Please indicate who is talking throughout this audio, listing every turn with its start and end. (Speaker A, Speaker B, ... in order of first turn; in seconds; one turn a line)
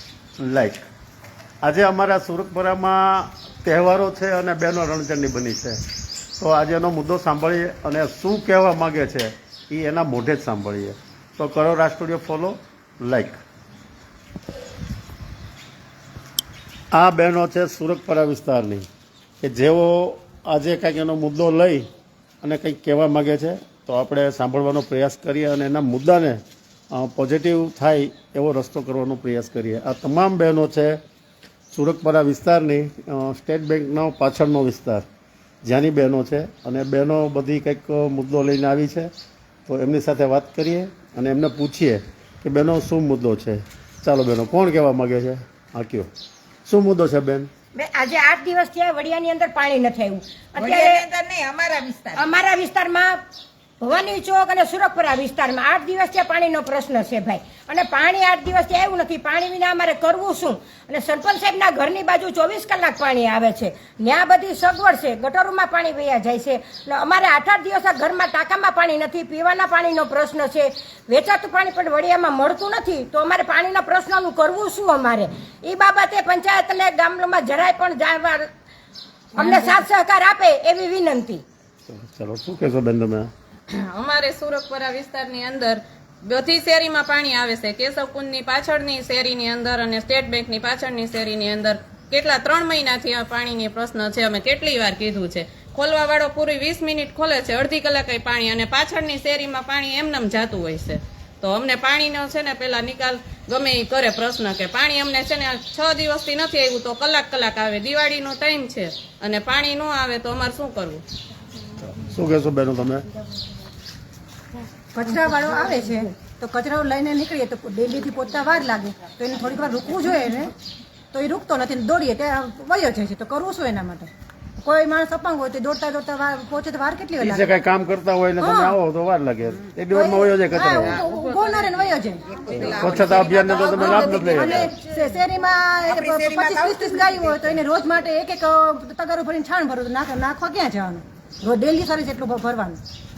Speaker A: 0.4-0.8
Speaker A: 1.6-5.8
Speaker A: 6.4-13.4
Speaker A: 16.9-18.9
Speaker A: 19.4-21.9
Speaker A: 22.4-26.4
Speaker A: 26.9-31.0
Speaker A: 31.7-35.0
Speaker A: 35.6-39.1
Speaker A: 39.7-46.1
Speaker A: 46.7-47.5
Speaker B: 47.8-51.0
Speaker C: 50.6-52.2
Speaker B: 52.2-53.2
Speaker B: 53.8-78.5
Speaker B: 79.4-81.4
Speaker A: 81.9-83.3
Speaker D: 83.7-111.0
Speaker A: 111.9-113.1
Speaker E: 114.9-120.5
Speaker E: 121.1-124.1
Speaker E: 124.6-127.5
Speaker A: 127.2-131.0
Speaker E: 128.4-128.8
Speaker E: 129.9-132.2
Speaker C: 132.3-133.7
Speaker A: 132.6-134.7
Speaker E: 133.7-142.8
Speaker C: 135.9-136.9